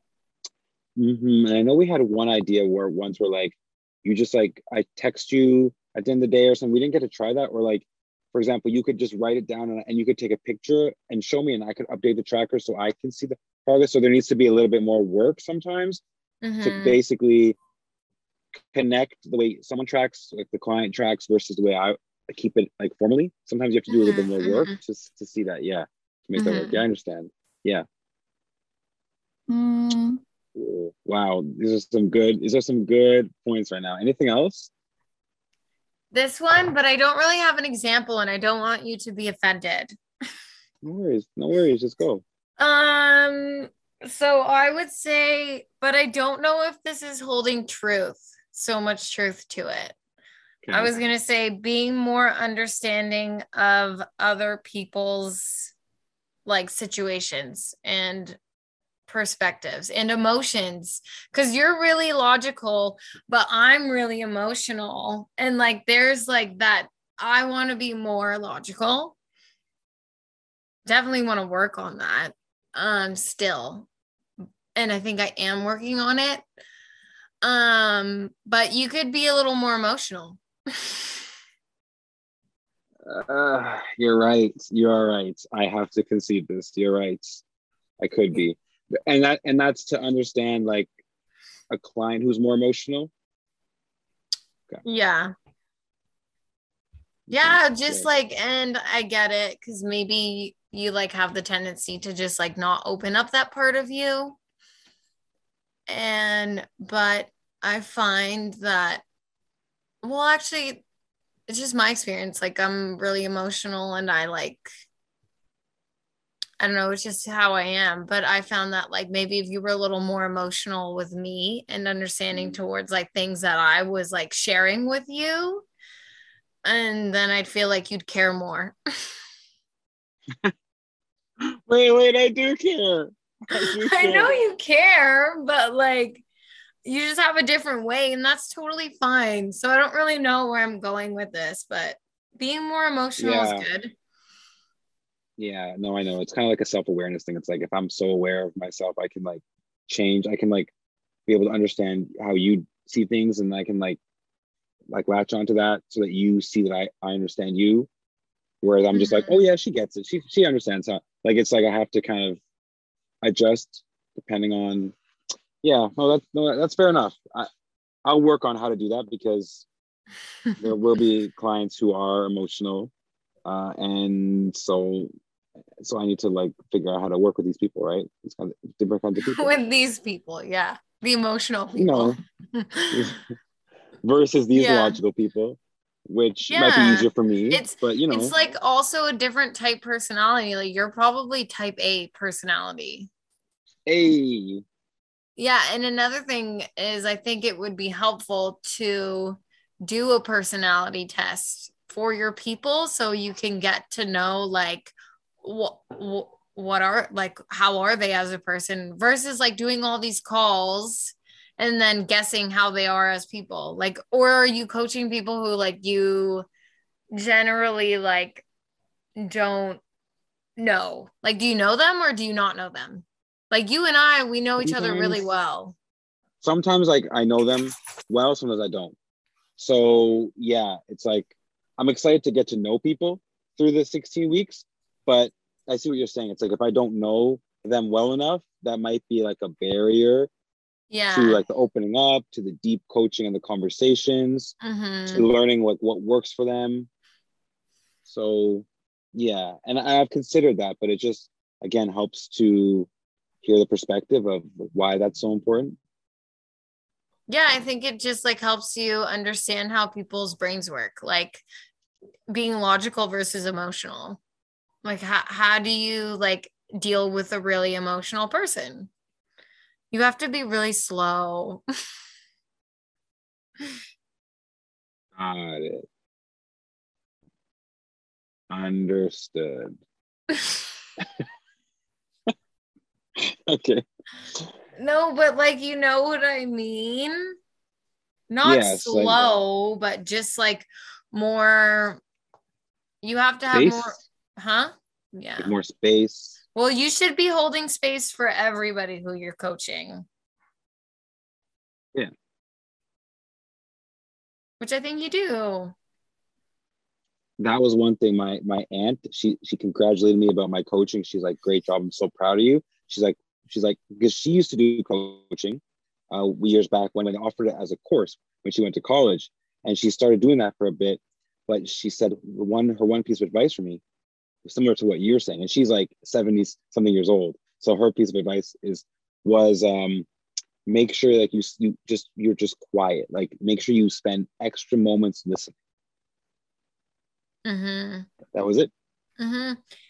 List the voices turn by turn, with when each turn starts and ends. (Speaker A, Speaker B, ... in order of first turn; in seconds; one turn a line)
Speaker A: 1.0-16.0
Speaker B: 16.4-17.0
Speaker A: 16.6-17.6
Speaker A: 18.7-27.8
Speaker B: 23.9-24.8
Speaker B: 26.4-26.8
Speaker B: 29.5-30.2
Speaker A: 30.5-34.7
Speaker B: 36.1-39.9
Speaker A: 40.8-42.2
Speaker B: 42.6-50.0
Speaker A: 50.6-51.0
Speaker B: 50.7-55.7
Speaker B: 56.5-58.4
Speaker B: 59.1-69.1
Speaker B: 70.8-73.9
Speaker B: 74.7-76.4
Speaker B: 77.4-81.2
Speaker A: 83.0-87.4
Speaker A: 88.0-90.9
Speaker A: 91.7-93.1
Speaker B: 94.8-95.3
Speaker A: 97.3-98.1
Speaker B: 97.3-104.4
Speaker B: 105.9-109.0
Speaker B: 110.0-110.8
Speaker B: 111.5-114.7
Speaker B: 116.6-125.7
Speaker A: 122.3-122.6
Speaker B: 126.6-128.8
Speaker A: 131.7-134.3
Speaker B: 133.6-136.2
Speaker B: 136.8-143.9
Speaker A: 143.2-143.7
Speaker A: 145.4-150.7
Speaker A: 151.3-154.0
Speaker A: 154.9-157.9
Speaker A: 158.6-162.4
Speaker B: 158.9-159.5
Speaker A: 163.2-164.9
Speaker A: 165.6-167.5
Speaker A: 168.0-169.6
Speaker A: 170.6-172.9
Speaker A: 173.4-175.1
Speaker A: 175.8-179.5
Speaker B: 179.2-183.2
Speaker A: 181.8-182.2
Speaker A: 182.9-183.2
Speaker A: 184.0-188.3
Speaker B: 184.5-185.0
Speaker B: 186.5-193.1
Speaker A: 193.9-194.6
Speaker B: 195.4-216.5
Speaker B: 217.1-218.4
Speaker B: 219.2-219.8
Speaker B: 220.6-225.8
Speaker A: 224.6-225.2
Speaker A: 226.4-228.9
Speaker A: 229.6-240.3
Speaker B: 240.9-241.4
Speaker A: 241.1-244.5
Speaker B: 244.6-245.2
Speaker A: 245.1-246.9
Speaker A: 248.1-252.9
Speaker A: 253.4-255.8
Speaker B: 257.3-261.4
Speaker B: 262.3-264.2
Speaker B: 264.8-268.9
Speaker B: 269.9-271.6
Speaker A: 275.2-275.9
Speaker A: 278.5-279.8
Speaker B: 280.3-280.7
Speaker A: 283.2-283.8
Speaker B: 284.8-287.3
Speaker B: 288.3-292.0
Speaker A: 288.4-289.2
Speaker B: 293.0-295.5
Speaker A: 293.5-293.9
Speaker A: 295.4-296.4
Speaker B: 296.5-300.0
Speaker B: 304.6-305.7
Speaker A: 307.4-323.8
Speaker A: 324.4-330.1
Speaker A: 330.6-335.5
Speaker B: 337.4-338.1
Speaker A: 338.3-338.7
Speaker B: 339.2-339.6